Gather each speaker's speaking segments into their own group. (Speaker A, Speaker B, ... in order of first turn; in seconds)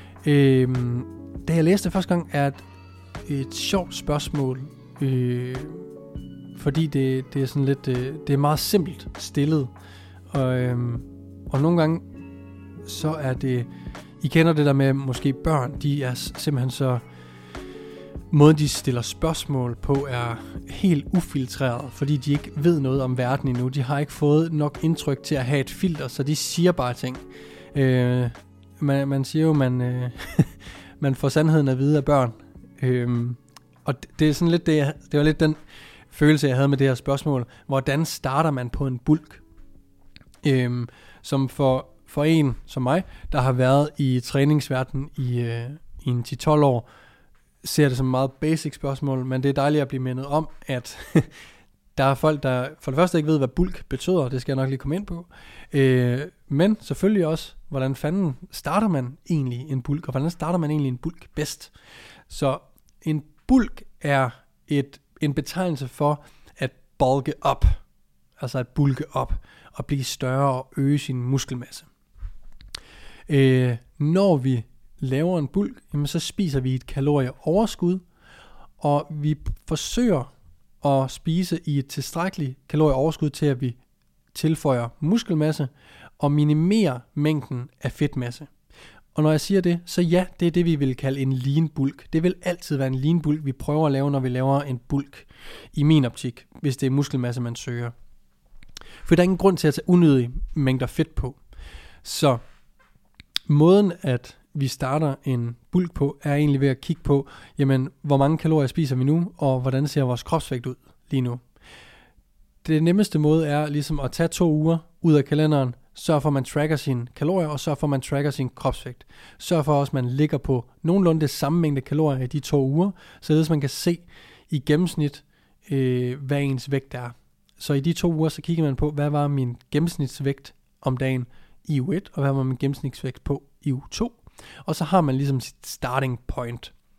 Speaker A: 0.2-2.6, 3.2-5.9, 6.5-9.7, 10.3-12.0, 12.8-13.7, 14.2-17.0, 18.3-39.4, 40.4-46.9, 47.6-51.4, 51.9-61.7, 62.3-67.8, 68.4-71.9, 73.3-78.0, 78.8-80.3, 80.8-83.8, 84.3-88.5, 89.1-97.9, 99.0-101.4, 102.0-102.4, 103.5-111.4, 112.6-136.7